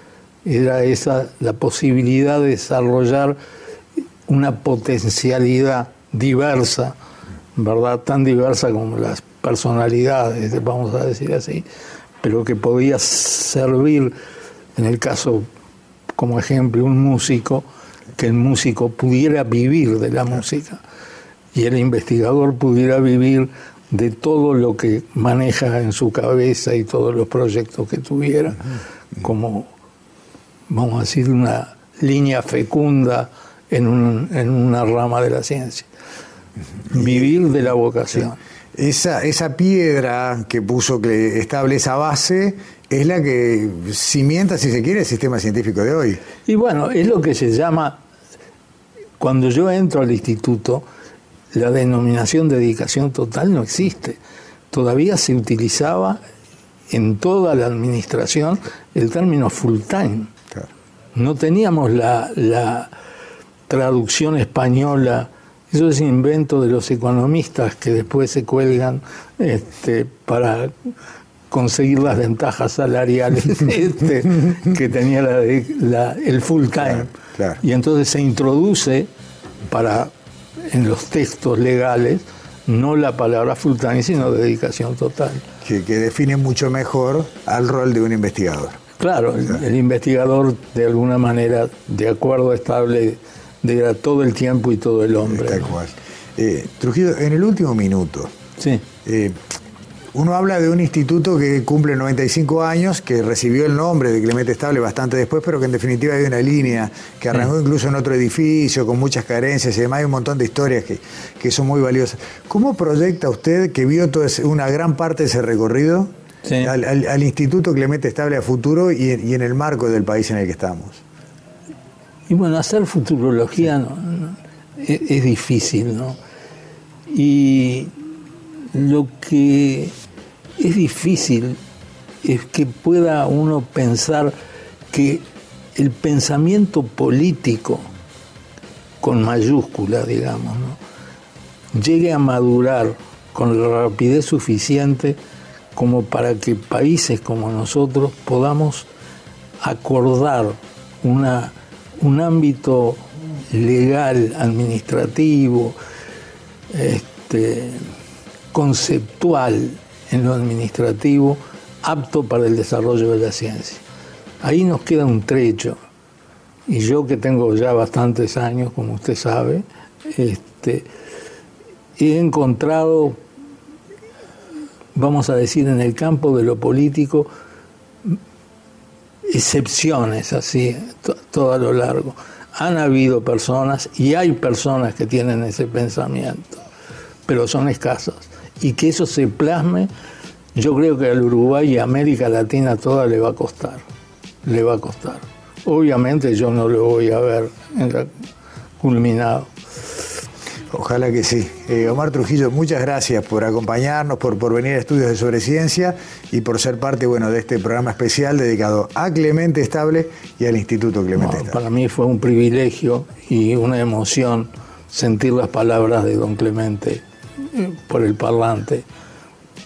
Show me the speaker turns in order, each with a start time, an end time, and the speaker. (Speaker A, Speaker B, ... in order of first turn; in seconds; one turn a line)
Speaker A: 0.4-3.4
Speaker A: 4.3-6.9
Speaker A: 7.5-11.6
Speaker A: 12.2-14.1
Speaker A: 14.8-15.4
Speaker A: 16.1-17.6
Speaker A: 18.1-20.8
Speaker A: 21.5-29.7
Speaker A: 30.7-35.9
Speaker A: 36.9-38.4
Speaker B: 36.9-37.3
Speaker B: 38.8-46.2
Speaker A: 46.4-48.0
Speaker A: 49.2-50.8
Speaker A: 51.5-54.2
Speaker A: 54.7-56.2
Speaker A: 56.9-60.3
Speaker A: 61.1-62.9
Speaker A: 63.7-70.7
Speaker A: 71.5-79.1
Speaker B: 76.8-77.6
Speaker A: 79.7-80.1
Speaker A: 80.7-85.4
Speaker B: 85.6-88.8
Speaker A: 89.0-95.7
Speaker B: 95.3-98.3
Speaker A: 98.6-98.8
Speaker B: 99.0-99.4
Speaker B: 100.1-121.0
Speaker A: 116.4-116.7
Speaker A: 122.3-126.2
Speaker A: 127.1-127.9
Speaker A: 128.7-129.9
Speaker A: 130.6-131.6
Speaker A: 132.2-134.3
Speaker A: 134.9-137.9
Speaker A: 139.0-140.8
Speaker A: 141.7-145.2
Speaker A: 145.7-148.9
Speaker A: 149.6-155.8
Speaker A: 156.7-157.9
Speaker A: 158.5-163.8
Speaker A: 164.4-165.8
Speaker A: 166.7-170.9
Speaker A: 172.0-173.2
Speaker A: 174.9-177.3
Speaker A: 179.3-186.6
Speaker A: 187.3-189.9
Speaker A: 190.5-193.8
Speaker A: 194.4-198.1
Speaker A: 198.8-199.5
Speaker B: 200.7-211.6
Speaker A: 211.1-218.8